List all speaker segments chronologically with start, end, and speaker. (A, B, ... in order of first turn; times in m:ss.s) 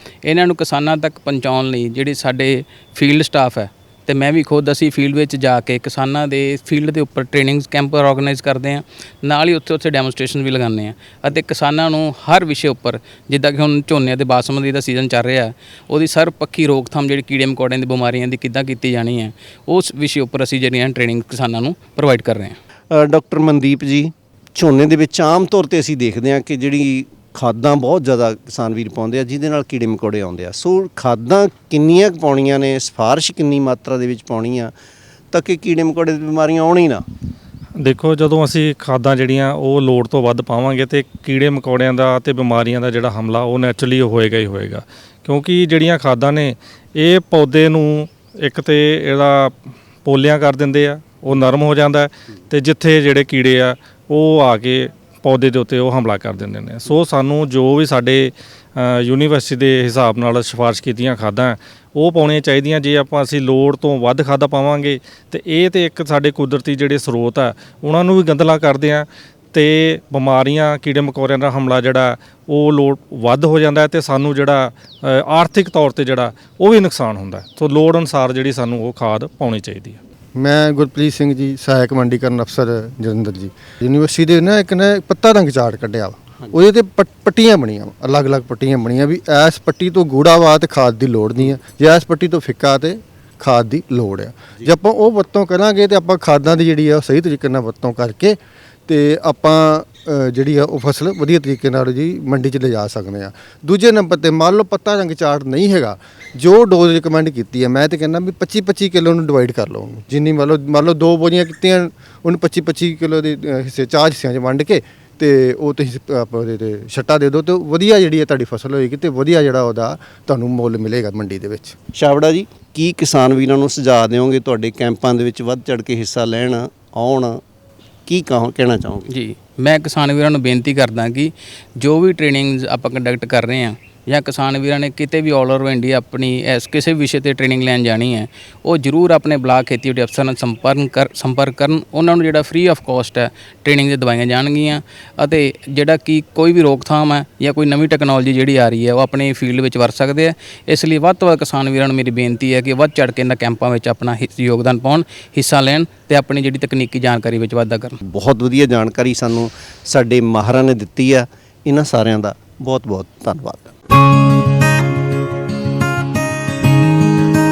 0:00.2-0:22.6 A
0:22.9-0:34.7 B
0:35.3-0:37.0 B
0:37.8-1:20.0 C
1:20.4-2:01.7 D
2:01.9-2:07.4 B
2:08.0-2:09.1 B
2:09.1-2:38.0 A
2:38.0-2:43.7 B